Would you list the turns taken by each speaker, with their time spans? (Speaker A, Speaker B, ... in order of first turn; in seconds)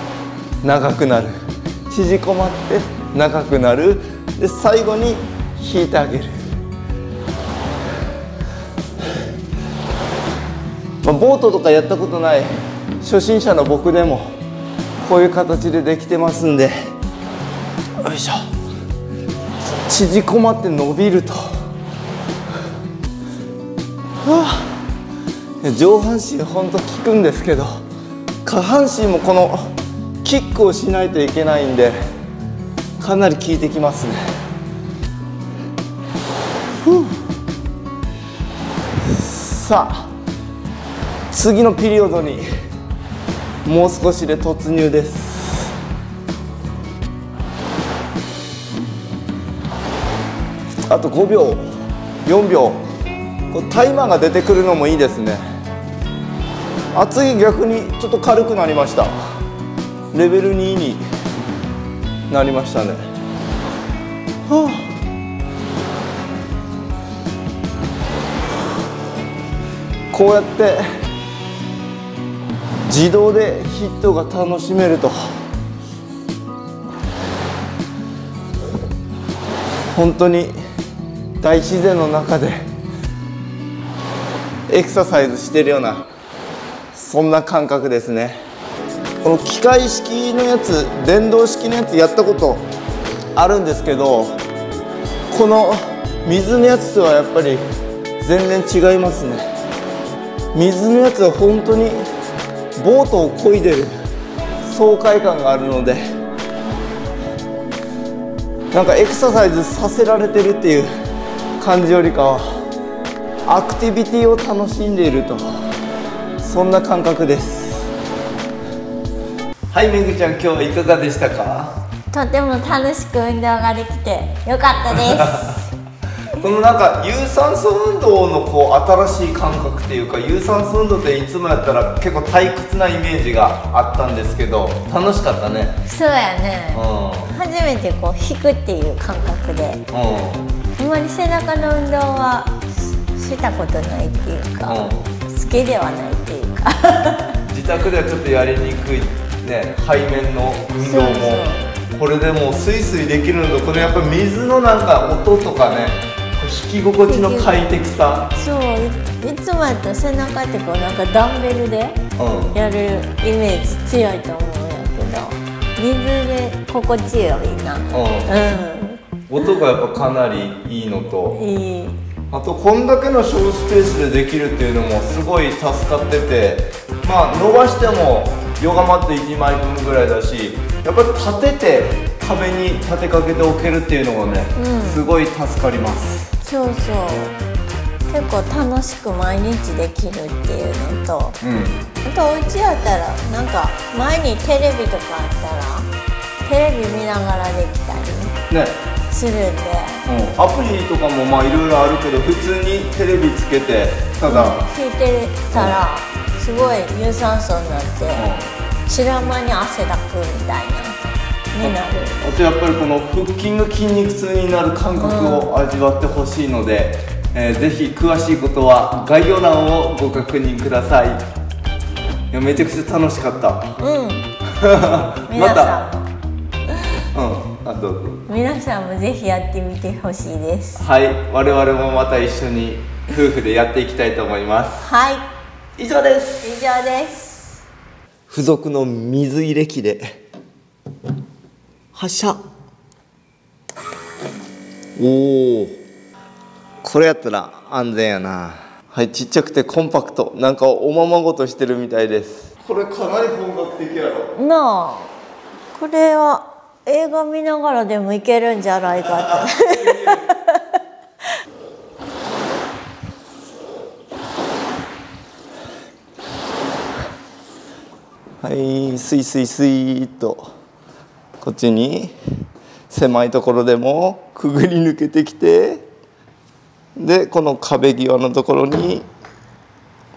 Speaker A: 0.6-1.4, 1.9-6.4, 11.0-14.3, 15.0-16.9, 18.0-18.4, 19.9-21.4, 24.2-24.7, 25.6-27.7, 28.4-29.6, 30.2-32.0, 33.0-34.2, 36.8-37.1, 39.1-40.1, 41.3-42.5, 43.6-45.7, 50.9-51.6, 52.2-52.8, 53.5-55.4, 56.9-59.1, 60.1-61.0, 62.3-63.0, 64.5-64.8, 70.1-70.8, 72.9-75.3, 79.9-80.5, 81.4-82.7, 84.7-86.0, 86.9-88.4, 89.2-92.6, 93.3-94.4, 95.3-97.6, 98.2-99.4, 100.5-102.0, 102.8-103.9, 104.6-106.1, 108.7-110.9, 111.6-112.4, 113.5-115.5, 116.4-117.9, 119.7-121.8, 125.0-125.5, 126.4-135.8, 136.7-137.3, 139.9-140.5, 144.7-145.1, 147.4-158.3, 162.2-162.6, 167.9-168.4, 169.3-171.4, 172.3-186.3, 191.4-191.8, 198.5-198.7, 200.0-204.7, 205.5-205.8, 208.1-208.5, 211.6-221.2, 222.3-223.8, 224.6-225.8, 227.1-228.2, 230.8-234.9, 235.8-236.6, 238.3-240.2, 241.9-242.4, 245.0-245.8, 246.8-254.3, 259.2-260.2, 268.4-270.4, 271.4-272.1, 272.9-275.8, 277.0-279.1
Speaker B: 122.1-125.6, 135.8-139.8, 140.8-147.4, 150.8-151.7, 157.0-157.5, 158.4-162.0, 162.5-169.5, 171.3-172.0, 184.6-185.1, 186.4-187.4, 188.1-191.4, 192.0-195.9, 196.4-198.3, 199.1-200.0, 204.3-208.3, 208.9-211.0, 211.5-212.3, 215.0-215.5, 223.8-224.3, 225.3-226.1, 228.3-230.8, 234.8-235.2, 236.4-237.6, 254.3-255.1, 255.7-260.8